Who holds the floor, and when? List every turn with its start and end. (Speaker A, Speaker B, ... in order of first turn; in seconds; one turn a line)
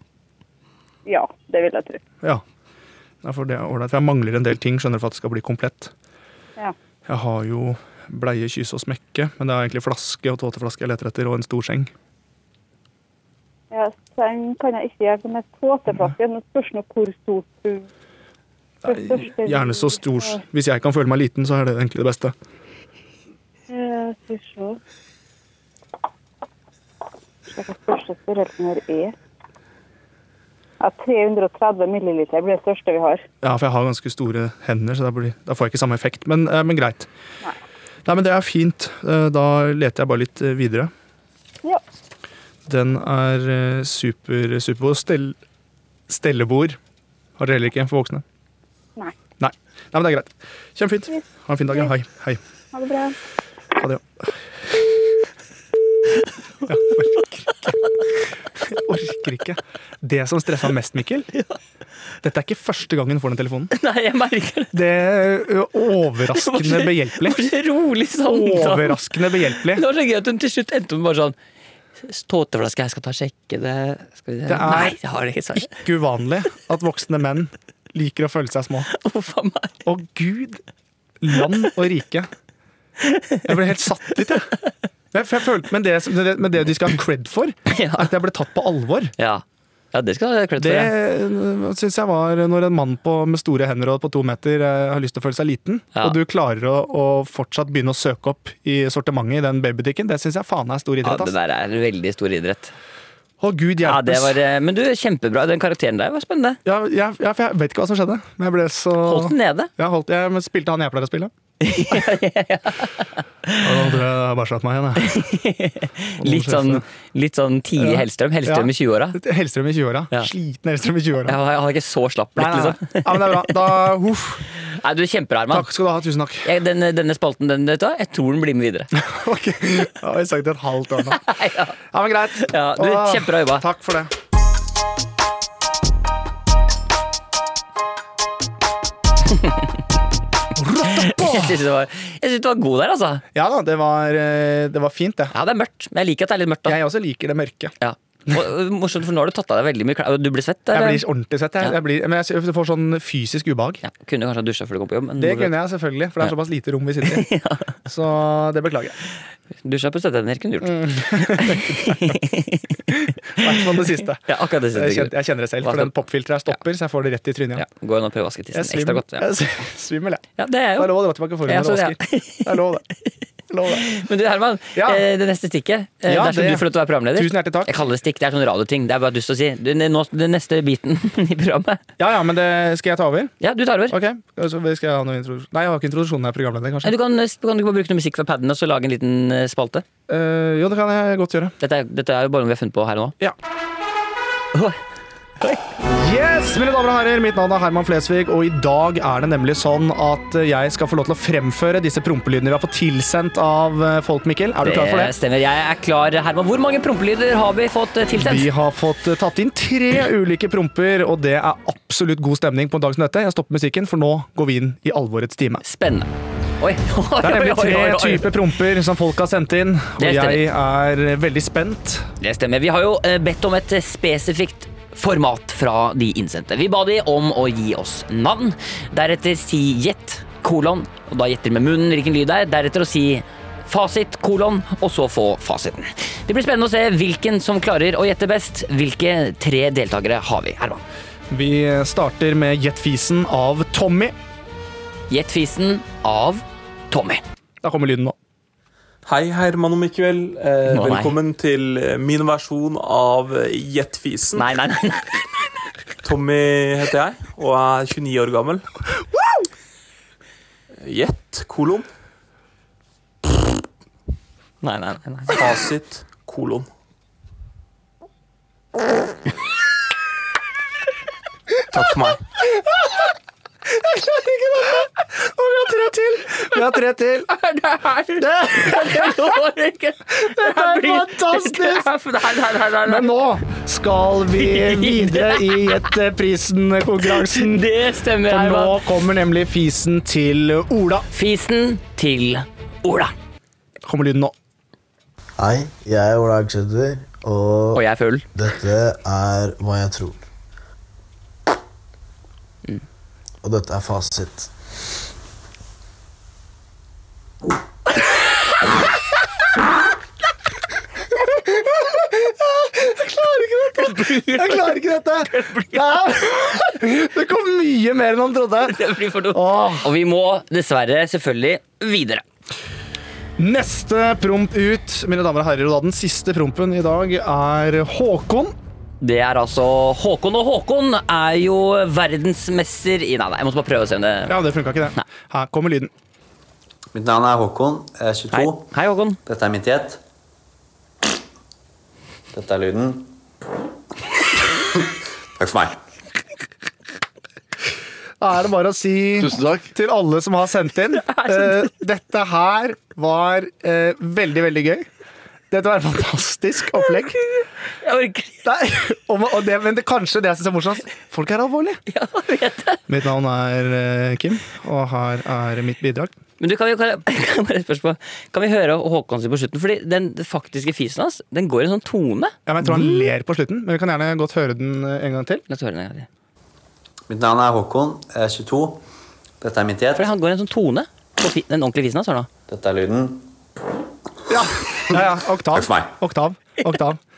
Speaker A: 1.1-2.0
Speaker B: 3.2-5.9
Speaker B: 7.1-11.9
Speaker A: 13.7-17.9
Speaker B: 18.8-22.3
Speaker A: 18.9-20.4
Speaker A: 23.7-24.8
Speaker A: 27.5-29.1
Speaker A: 30.8-33.2
Speaker B: 33.4-37.1
Speaker B: 38.0-40.9
Speaker B: 42.6-45.4
Speaker B: 46.1-46.8
Speaker B: 47.4-48.2
Speaker B: 49.4-52.4
Speaker A: 52.7-53.1
Speaker B: 53.8-54.3
Speaker B: 56.6-57.7
Speaker B: 58.6-61.3
Speaker B: 62.2-63.7
Speaker C: 63.7-64.8
Speaker B: 64.7-67.5
Speaker C: 66.3-71.3
Speaker B: 68.2-69.8
Speaker C: 72.0-75.7
Speaker B: 74.5-75.0
Speaker B: 75.5-78.9
Speaker C: 78.9-79.7
Speaker B: 79.8-80.6
Speaker B: 81.2-82.3
Speaker C: 83.0-83.4
Speaker B: 83.4-84.5
Speaker B: 85.1-89.1
Speaker C: 87.7-88.1
Speaker C: 89.2-90.9
Speaker B: 90.6-101.3
Speaker C: 101.0-102.7
Speaker B: 103.4-104.4
Speaker C: 103.8-106.6
Speaker B: 106.6-111.3
Speaker C: 109.0-109.7
Speaker C: 111.6-113.9
Speaker B: 113.6-115.2
Speaker C: 115.0-119.2
Speaker B: 116.2-116.8
Speaker B: 117.8-121.4
Speaker C: 121.2-123.7
Speaker B: 122.3-124.5
Speaker C: 124.6-125.7
Speaker B: 125.5-126.5
Speaker C: 126.4-128.9
Speaker B: 128.9-131.2
Speaker C: 131.1-131.8
Speaker B: 131.9-134.1
Speaker C: 132.4-133.6
Speaker B: 140.5-141.6
Speaker C: 140.8-143.2
Speaker B: 143.3-145.3
Speaker C: 145.3-146.8
Speaker B: 146.7-147.7
Speaker C: 147.8-151.0
Speaker B: 150.7-153.8
Speaker C: 153.8-155.5
Speaker B: 155.2-157.3
Speaker C: 157.0-157.7
Speaker B: 157.8-159.0
Speaker C: 159.6-162.8
Speaker B: 160.6-162.2
Speaker B: 162.9-167.7
Speaker C: 163.4-165.9
Speaker C: 167.5-169.3
Speaker B: 168.5-172.8
Speaker C: 170.4-172.6
Speaker B: 173.5-173.9
Speaker C: 173.7-181.8
Speaker B: 174.7-175.0
Speaker B: 176.1-177.7
Speaker B: 182.0-183.3
Speaker C: 183.4-184.0
Speaker B: 183.9-186.9
Speaker C: 186.8-189.8
Speaker B: 190.1-191.5
Speaker C: 191.6-193.2
Speaker C: 194.5-194.8
Speaker B: 195.9-205.1
Speaker C: 204.6-208.5
Speaker B: 208.1-215.6
Speaker C: 215.6-218.3
Speaker B: 217.2-222.1
Speaker C: 220.0-220.5
Speaker C: 222.2-240.8
Speaker B: 241.3-244.1
Speaker C: 245.1-247.2
Speaker B: 247.6-248.2
Speaker D: 249.0-254.5
Speaker C: 250.7-251.2
Speaker C: 254.3-255.2
Speaker D: 256.0-258.6
Speaker D: 260.8-261.9
Speaker C: 264.6-265.4
Speaker D: 265.3-266.7
Speaker D: 271.7-272.2
Speaker B: 273.7-277.4
Speaker C: 277.4-283.1
Speaker B: 278.1-279.3
Speaker B: 280.1-281.9
Speaker B: 282.8-287.7
Speaker C: 284.4-285.9
Speaker C: 287.0-288.8
Speaker B: 288.2-291.1
Speaker C: 291.1-293.1
Speaker B: 293.8-294.3
Speaker E: 295.4-300.2
Speaker C: 297.7-298.2
Speaker E: 303.4-304.5
Speaker B: 311.1-318.8
Speaker C: 313.7-316.0
Speaker C: 318.6-322.2
Speaker B: 319.3-319.9
Speaker B: 323.4-328.5
Speaker C: 329.0-334.4
Speaker B: 334.3-335.9
Speaker F: 336.9-338.7
Speaker C: 338.3-339.2
Speaker F: 339.2-340.0
Speaker F: 342.3-343.1
Speaker F: 345.4-345.8
Speaker B: 348.2-354.9
Speaker C: 350.9-351.7
Speaker B: 355.5-357.2
Speaker C: 357.8-358.4
Speaker B: 358.4-361.8
Speaker C: 361.9-362.8
Speaker B: 362.9-366.1
Speaker C: 366.4-373.1
Speaker B: 372.4-375.4
Speaker C: 375.5-376.1
Speaker F: 377.1-378.8
Speaker F: 379.4-380.1
Speaker C: 379.9-382.3
Speaker F: 382.5-383.3
Speaker B: 384.3-387.0
Speaker F: 385.5-385.9